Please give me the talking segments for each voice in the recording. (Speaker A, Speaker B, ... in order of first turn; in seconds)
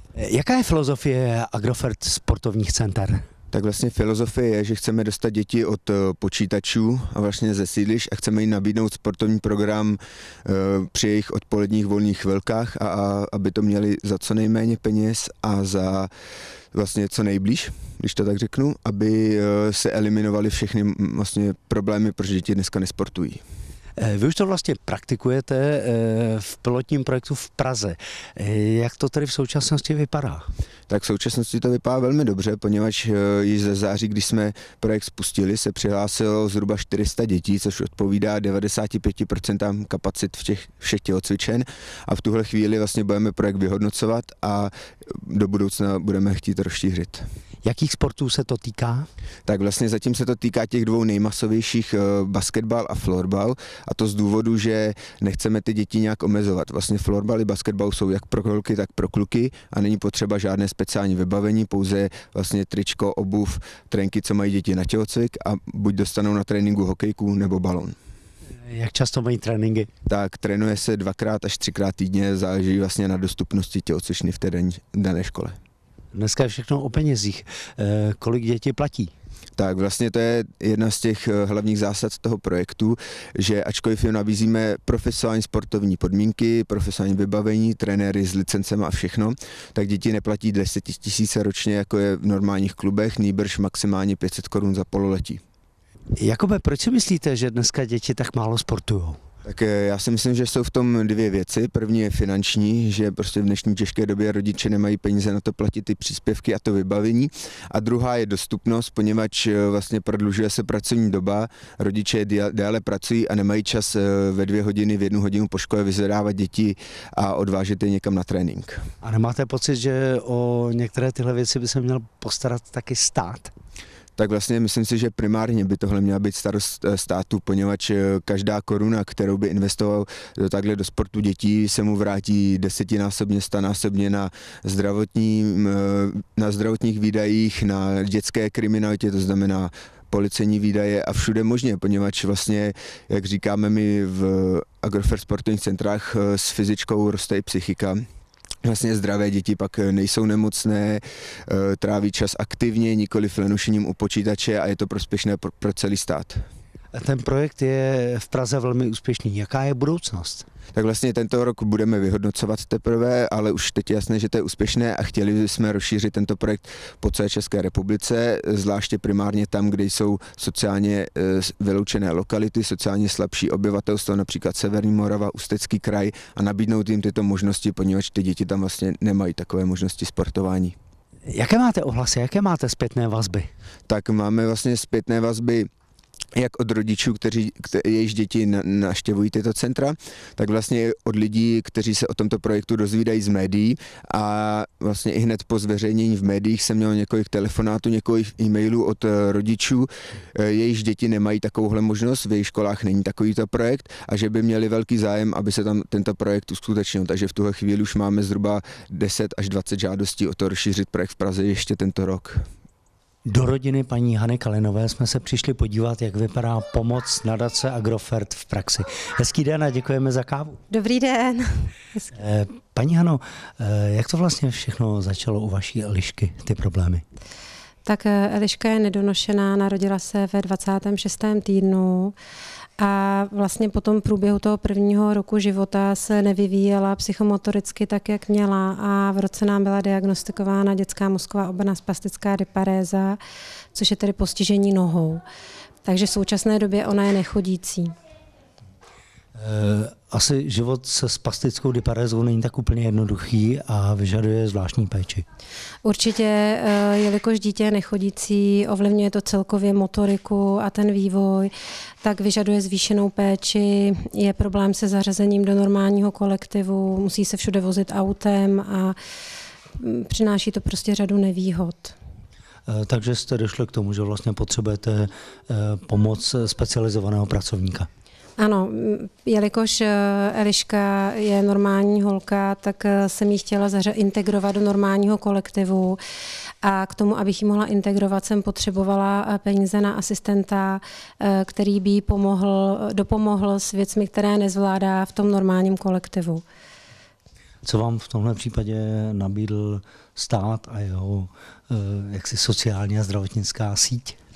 Speaker A: 0.2-3.2, 24.0-30.5, 47.6-49.1, 68.7-69.9, 76.1-79.1, 96.2-99.2, 119.0-123.5, 156.9-160.4, 181.3-183.5, 213.3-220.6, 222.2-227.0, 249.4-255.2, 272.7-277.9, 297.6-304.2
Speaker B: 3.5-16.1, 16.7-23.4, 30.9-47.3, 49.5-68.0, 70.1-75.6, 79.6-95.4, 99.4-118.8, 124.2-148.1, 148.6-156.4, 160.7-180.8, 183.9-185.7, 186.4-212.5
Speaker C: 220.7-222.1, 227.8-232.2, 232.8-243.2, 243.7-245.2, 245.8-247.9, 255.8-261.5, 262.0-269.0, 269.8-271.9, 278.4-286.0, 286.6-296.4